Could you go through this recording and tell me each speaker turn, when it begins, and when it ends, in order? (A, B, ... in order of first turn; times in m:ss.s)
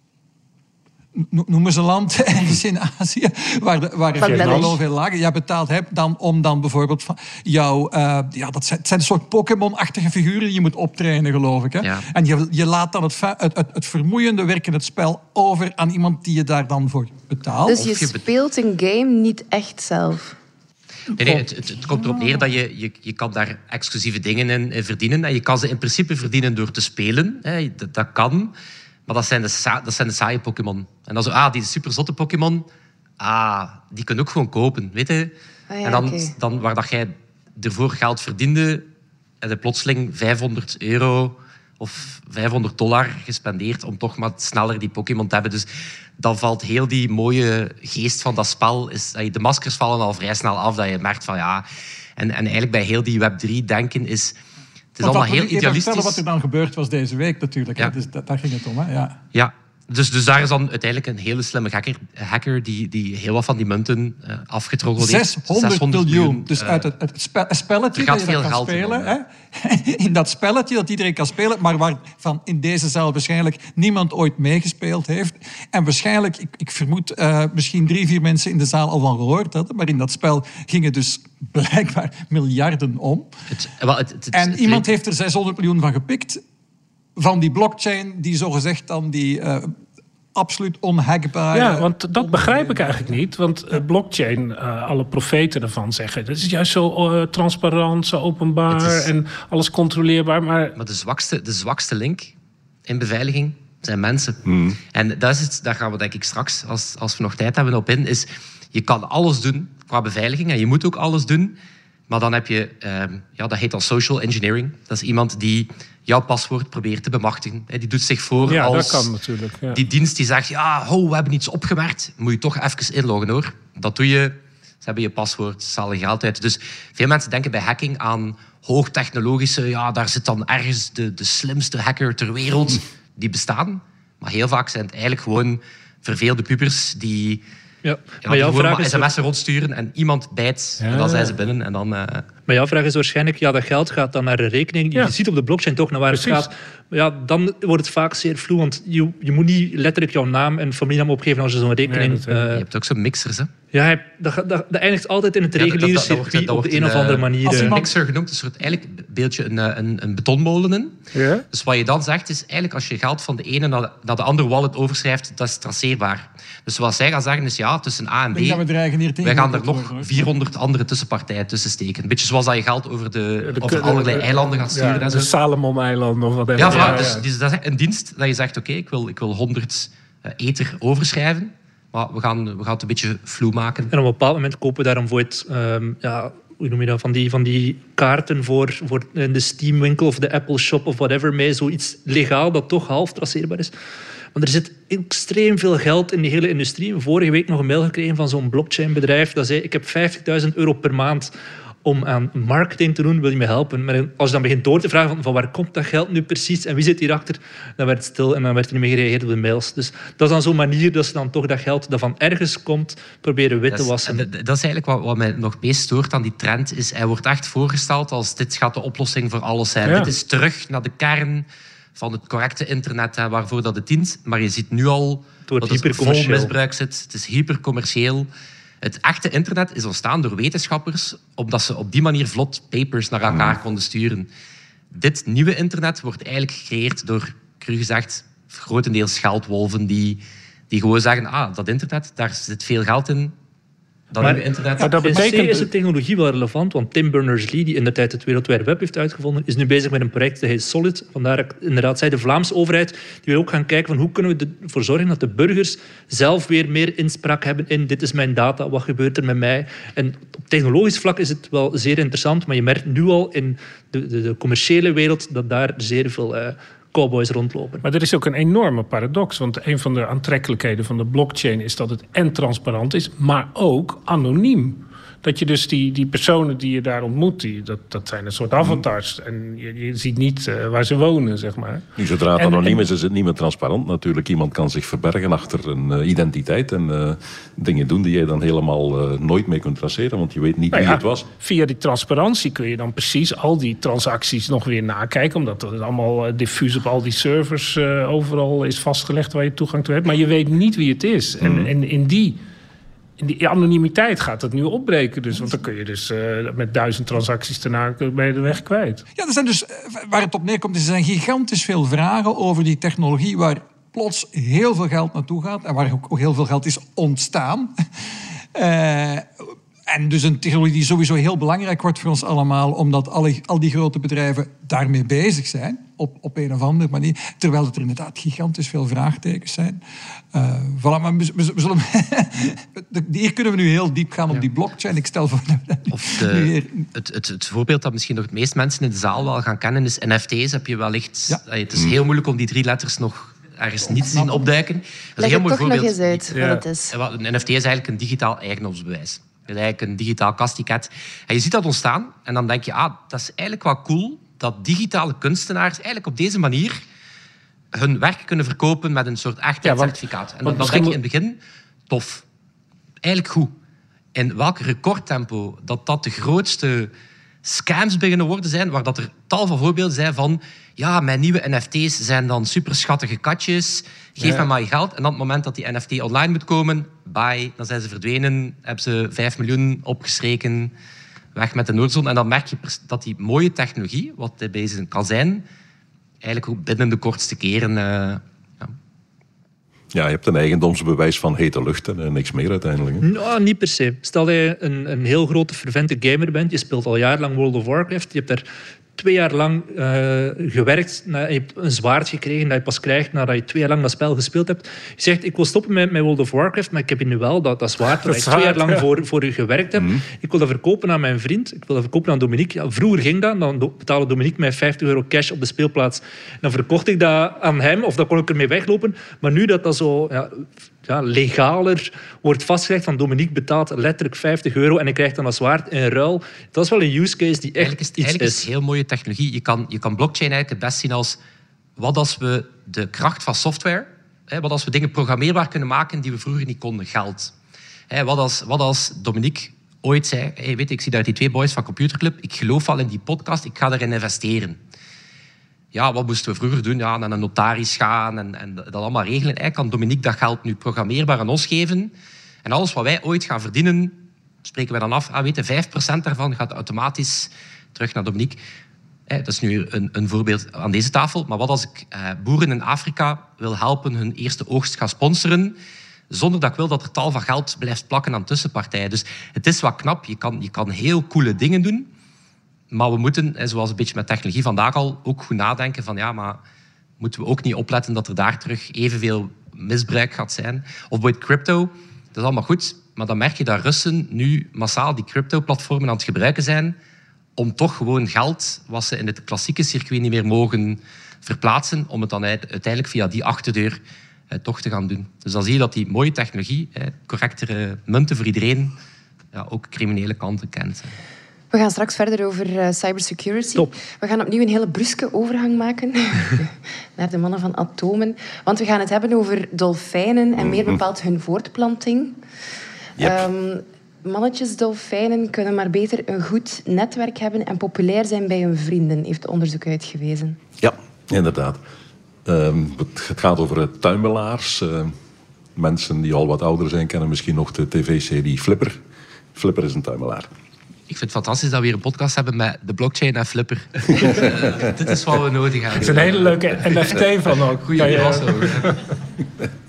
0:01.1-0:17.9 A
0:04.2-0:04.8 B
0:04.2-0:04.7 C
0:17.7-0:20.4 B
0:17.7-0:18.2 D
0:21.1-0:22.4 A
0:21.1-0:28.5 D
0:29.1-0:32.7 D
0:33.2-0:35.3 D
0:35.7-0:36.3 B
0:35.8-0:38.9 D
0:39.4-0:51.6 D
0:52.2-0:54.4 D
0:54.9-0:56.2 D
0:55.0-0:59.2 A
0:59.3-1:06.9 D
1:05.0-1:23.3 A
1:07.9-1:09.1 D
1:23.5-1:24.9 D
1:24.3-1:26.4 A
1:27.2-1:29.8 A
1:30.3-1:33.2 A
1:31.5-1:40.8 C
1:38.7-1:39.1 D
1:40.8-1:42.3 D
1:42.9-1:51.6 D
1:44.4-1:44.8 E
1:52.1-1:59.1 D
1:58.5-1:59.8 C
1:59.7-2:17.4 D
2:17.8-2:19.1 F
2:18.2-2:22.3 D
2:20.8-2:21.3 C
2:22.5-2:32.6 F
2:26.1-2:26.5 C
2:31.9-2:32.5 C
2:32.5-2:33.5 D
2:33.7-2:37.8 F
2:35.6-2:41.0 D
2:37.4-2:37.9 A
2:41.1-2:41.4 C
2:41.5-2:48.6 D
2:48.3-2:50.3 A
2:49.2-2:55.3 D
2:53.5-2:57.2 C
2:56.6-3:03.9 D
2:56.7-2:57.1 F
3:03.9-3:13.7 F
3:14.3-3:21.3 F
3:21.8-3:34.3 F
3:33.7-3:48.3 D
3:45.5-3:46.5 F
3:48.8-3:54.3 D
3:53.3-3:53.6 E
3:54.9-4:03.3 D
4:04.1-4:05.2 D
4:04.2-4:27.8 F
4:04.8-4:05.7 C
4:27.8-4:42.8 C
4:38.6-4:38.8 E
4:42.0-4:51.3 E
4:50.7-5:02.4 C
5:01.4-5:01.7 E
5:03.2-5:09.0 C
5:09.2-5:17.7 A
5:18.5-5:29.8 A
5:30.3-5:36.9 A
5:35.9-5:56.8 D
5:45.2-5:46.9 B
5:46.3-5:46.6 C
5:57.7-6:02.2 D
5:59.6-6:01.0 C
6:03.0-6:03.5 D
6:04.1-6:06.9 D
6:07.4-6:20.7 D
6:14.2-6:14.4 C
6:21.3-6:25.4 D
6:26.2-6:28.7 D
6:29.9-6:33.1 E
6:33.0-6:38.4 F
6:39.0-7:08.5 F
6:48.0-6:48.8 C
7:07.6-7:11.2 D
7:11.8-7:17.3 D
7:17.9-7:24.6 D
7:25.7-7:38.4 D
7:39.1-7:45.6 D
7:46.1-7:51.9 D
7:52.7-7:56.4 D
7:57.0-8:06.8 D
8:07.4-8:13.8 D
8:14.3-8:18.7 D
8:19.3-8:20.9 D
8:21.5-8:32.2 B
8:30.4-8:30.8 E
8:33.0-8:33.3 E
8:33.0-8:40.4 B
8:40.6-8:41.6 E
8:42.2-8:44.9 E
8:45.6-8:48.8 E
8:49.3-8:50.3 E
8:50.9-8:56.3 D
8:54.0-8:54.3 E
8:55.8-8:58.8 C
8:57.6-8:58.8 D